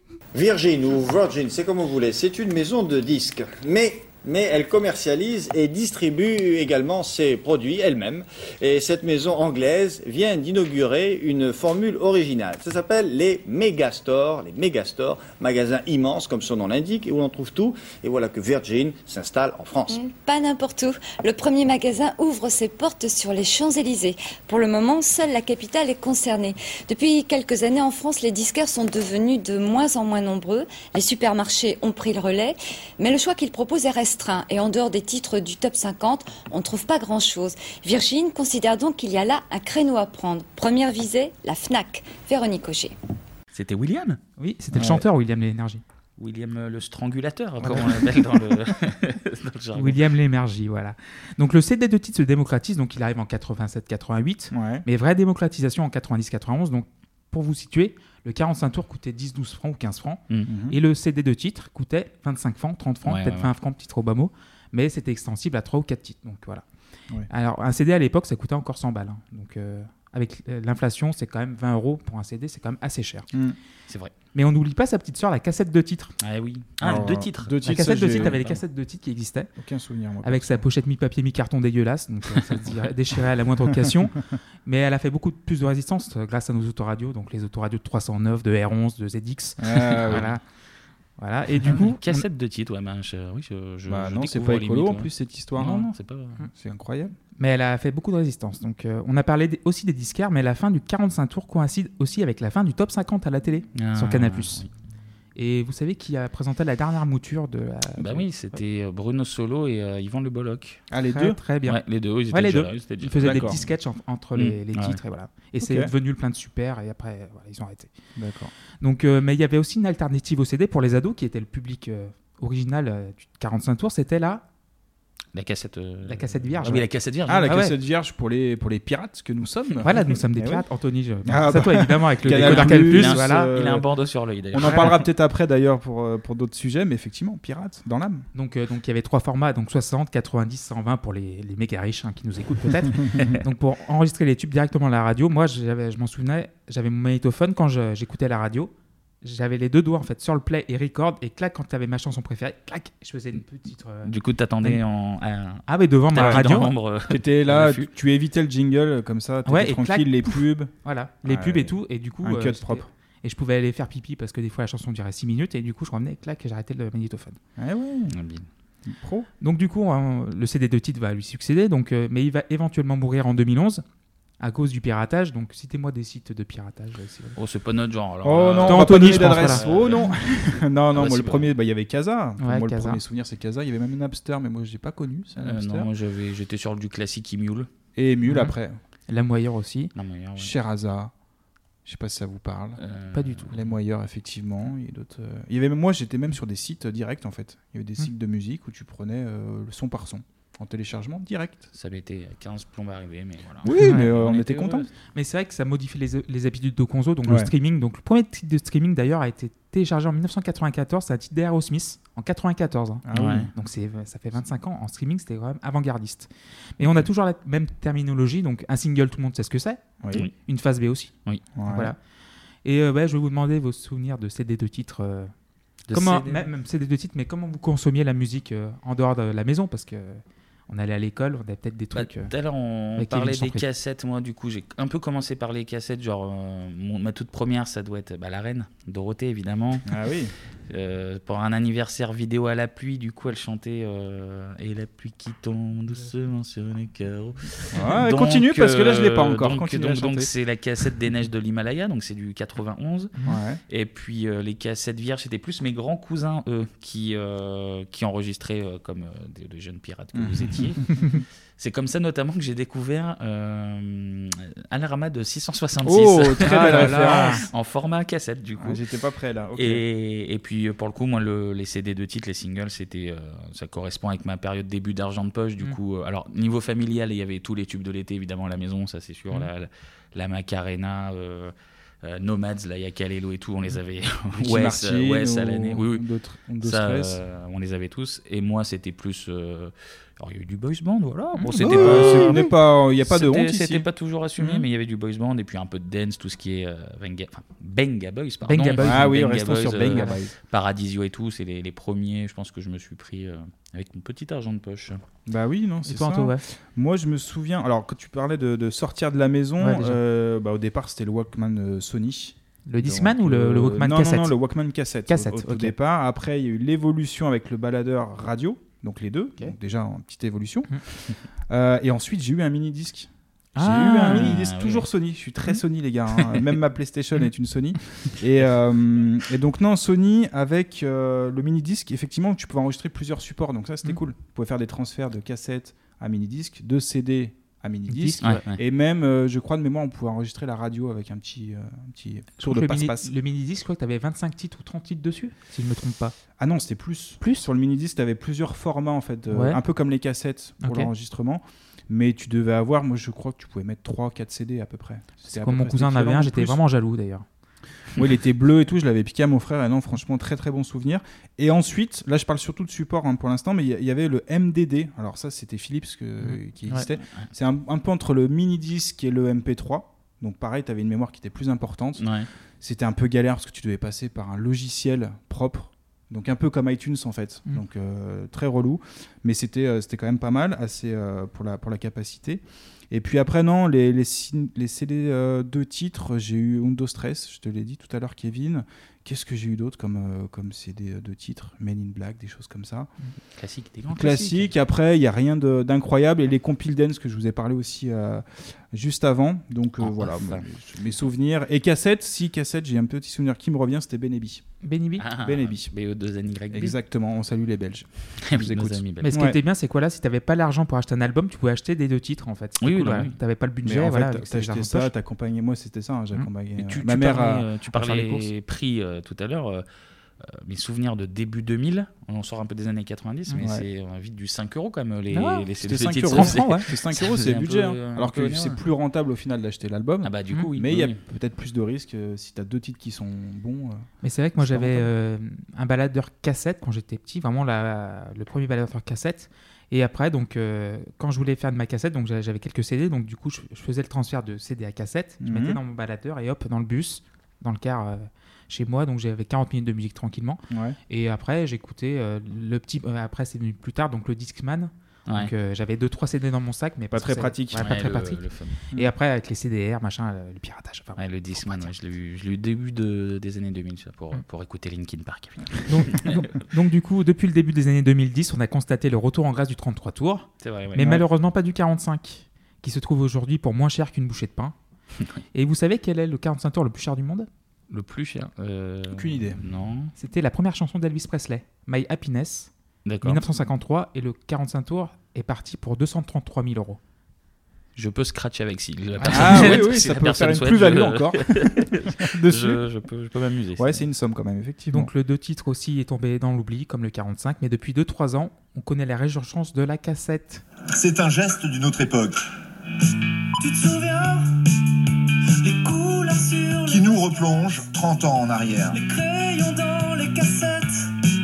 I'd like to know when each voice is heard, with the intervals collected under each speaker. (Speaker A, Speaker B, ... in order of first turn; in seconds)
Speaker A: 0.3-20.0
Speaker B: 19.9-42.9
Speaker C: 43.5-44.2, 46.2-50.0, 63.0-63.5, 73.9-74.1, 76.2-78.4, 90.1-90.3, 91.7-96.4, 103.7-104.7, 108.0-110.8, 111.7-113.6, 114.3-115.0, 125.3-127.5, 132.2-135.0, 154.0-157.9, 168.1-168.5, 177.3-180.1, 180.9-181.5, 185.4-187.7, 189.9-190.5, 192.8-193.5, 201.7-204.9, 213.1-213.5, 225.9-226.4, 231.9-239.9, 240.7-253.1, 253.7-260.8, 261.6-268.8, 269.6-286.0, 286.6-292.4, 293.0-305.0, 324.0-324.8, 338.2-338.6, 372.0-372.3, 393.3-394.5, 399.8-400.4, 405.0-406.8, 408.3-409.1, 412.6-413.1, 416.6-419.6, 420.2-428.6, 430.0-431.0, 457.5-458.6, 461.0-466.1, 470.4-471.0, 477.7-479.9, 482.9-483.2, 487.8-493.8
Speaker D: 44.4-45.8, 49.7-66.6, 67.3-73.3, 74.3-76.2, 77.6-79.5, 80.2-90.4, 91.2-92.0, 97.4-104.6, 105.3-108.3, 111.1-111.8, 112.3-117.9, 118.8-124.4, 126.1-126.8, 127.5-127.8, 129.8-133.5, 134.6-134.9, 138.3-148.7, 149.2-154.8, 155.7-156.7, 159.4-167.4, 169.4-173.8, 174.4-177.3, 178.6-179.6, 182.4-183.0, 188.2-188.5, 189.1-189.9, 193.1-193.5, 203.8-204.1, 205.0-222.0, 222.6-225.3, 225.9-232.3, 233.0-233.6, 266.4-267.4, 291.4-292.4, 298.4-299.2, 305.9-306.4, 309.6-310.0, 312.7-314.4, 315.1-315.7, 323.6-324.4, 337.9-338.4, 342.4-346.1, 349.3-349.6, 350.6-350.9, 355.3-357.2, 366.2-366.9, 404.6-405.0, 409.0-414.9, 425.1-425.5, 426.1-426.7, 434.0-458.2, 458.7-461.7, 465.7-474.5, 475.3-477.3, 480.0-482.5, 483.0-486.8, 489.0-489.7, 494.7-500.4
Speaker E: 44.7-45.0, 54.5-54.8, 60.5-60.8, 76.8-78.6, 79.6-80.6, 89.6-90.3, 93.9-95.9, 96.5-97.1, 110.9-111.4, 113.2-113.6, 115.6-115.9, 118.2-118.5, 126.7-130.6, 131.2-133.8, 134.5-138.2, 156.1-156.5, 157.1-160.7, 161.2-162.8, 167.6-168.1, 168.8-169.3, 178.2-185.9, 187.9-188.8, 190.4-191.1, 191.8-192.8, 193.5-201.7, 203.6-204.9, 213.1-213.5, 221.5-221.9, 239.9-240.3, 247.7-250.3, 253.2-253.6, 260.1-261.1, 265.8-267.4, 268.6-269.8, 284.4-287.2, 291.4-293.9, 294.4-294.6, 298.8-300.3, 305.3-320.8, 321.5-343.1, 346.4-356.6, 357.9-372.0, 372.6-392.9, 393.9-404.4, 405.2-405.7, 406.5-409.4, 413.6-418.2, 423.4-423.6, 425.6-433.9, 434.4-434.9, 445.2-445.6, 450.5-450.8, 456.9-457.7, 478.9-479.4, 489.1-492.6, 493.6-494.9
Speaker F: 500.7-502.2, 506.7-508.8
Speaker G: 503.4-504.3, 505.4-507.1, 508.7-510.9